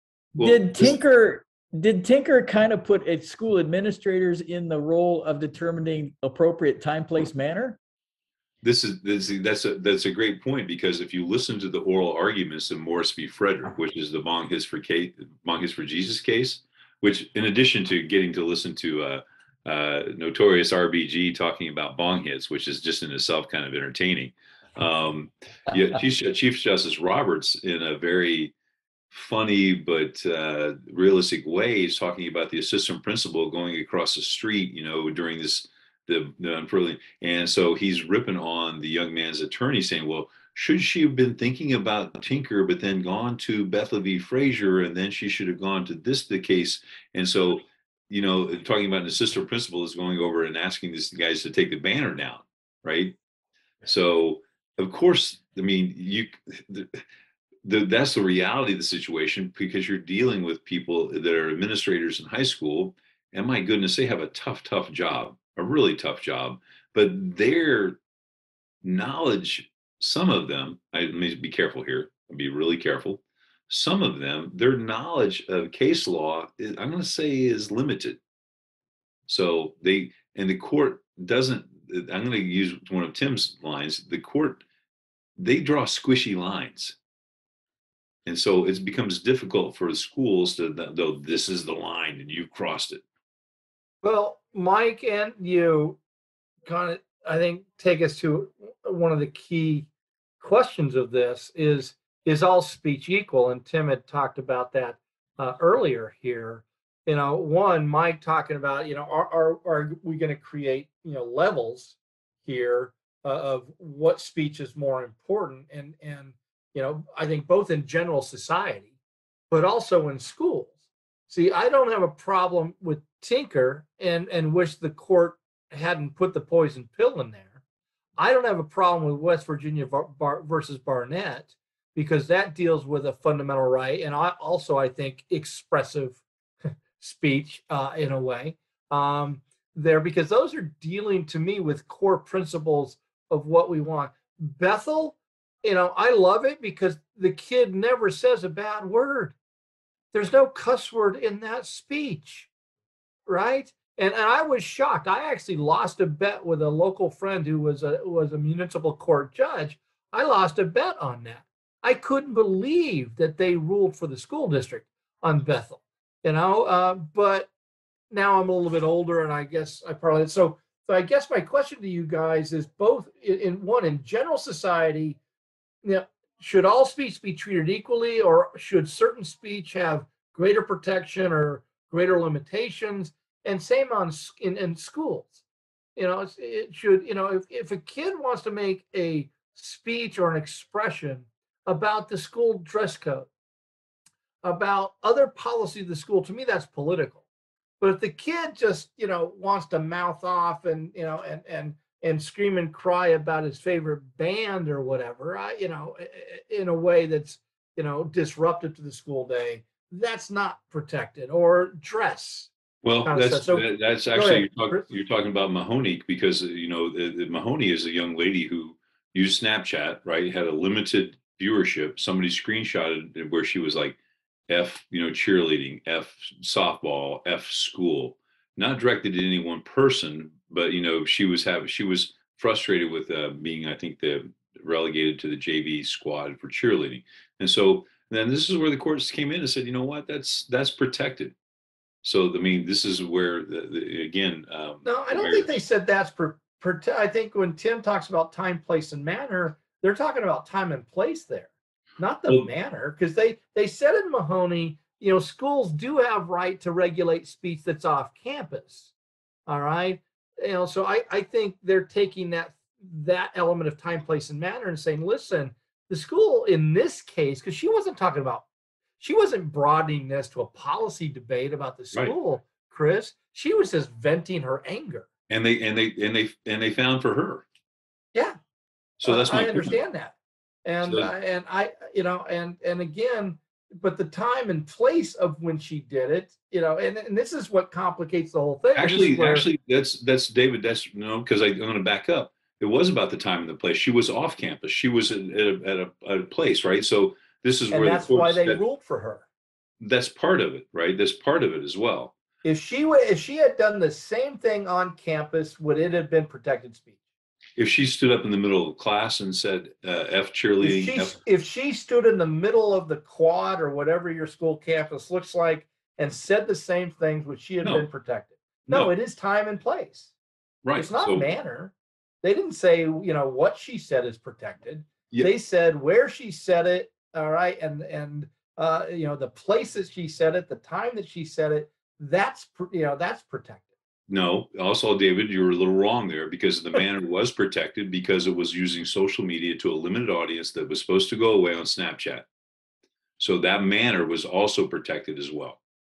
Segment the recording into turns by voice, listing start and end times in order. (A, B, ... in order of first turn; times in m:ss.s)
0:00.4-0:01.0 A
0:00.4-0:07.8 B
0:08.6-0:28.5 A
0:29.1-0:53.2 A
0:53.8-0:57.0 A
0:57.6-1:08.0 A
1:08.8-1:18.2 A
1:19.3-1:24.6 A
1:25.4-1:27.0 A
1:28.3-1:33.0 A
1:34.0-1:36.0 C
1:36.6-1:39.9 C
1:40.4-1:58.9 C
1:59.5-2:00.8 C
2:01.3-2:07.6 C
2:08.2-2:16.2 C
2:17.0-2:29.4 C
2:30.1-2:32.5 C
2:33.3-2:47.5 C
2:48.1-2:55.2 C
2:55.8-3:05.4 C
3:06.0-3:13.3 C
3:14.4-3:17.2 C
3:17.8-3:32.5 C
3:32.8-3:44.0 A
3:33.0-3:34.8 C
3:44.5-4:01.3 A
4:02.0-4:05.6 A
4:04.8-4:18.9 C
4:19.5-4:28.4 C
4:29.0-4:35.1 C
4:35.3-4:37.4 A
4:39.0-4:39.8 A
4:39.1-4:49.5 C
4:40.8-4:41.1 A
4:48.8-4:58.6 A
4:57.7-4:59.2 C
4:59.8-5:02.1 A
5:02.4-5:07.0 C
5:07.6-5:11.2 A
5:10.6-5:20.1 C
5:20.6-5:21.3 A
5:20.8-5:33.7 C
5:34.1-5:42.3 A
5:43.2-5:45.6 A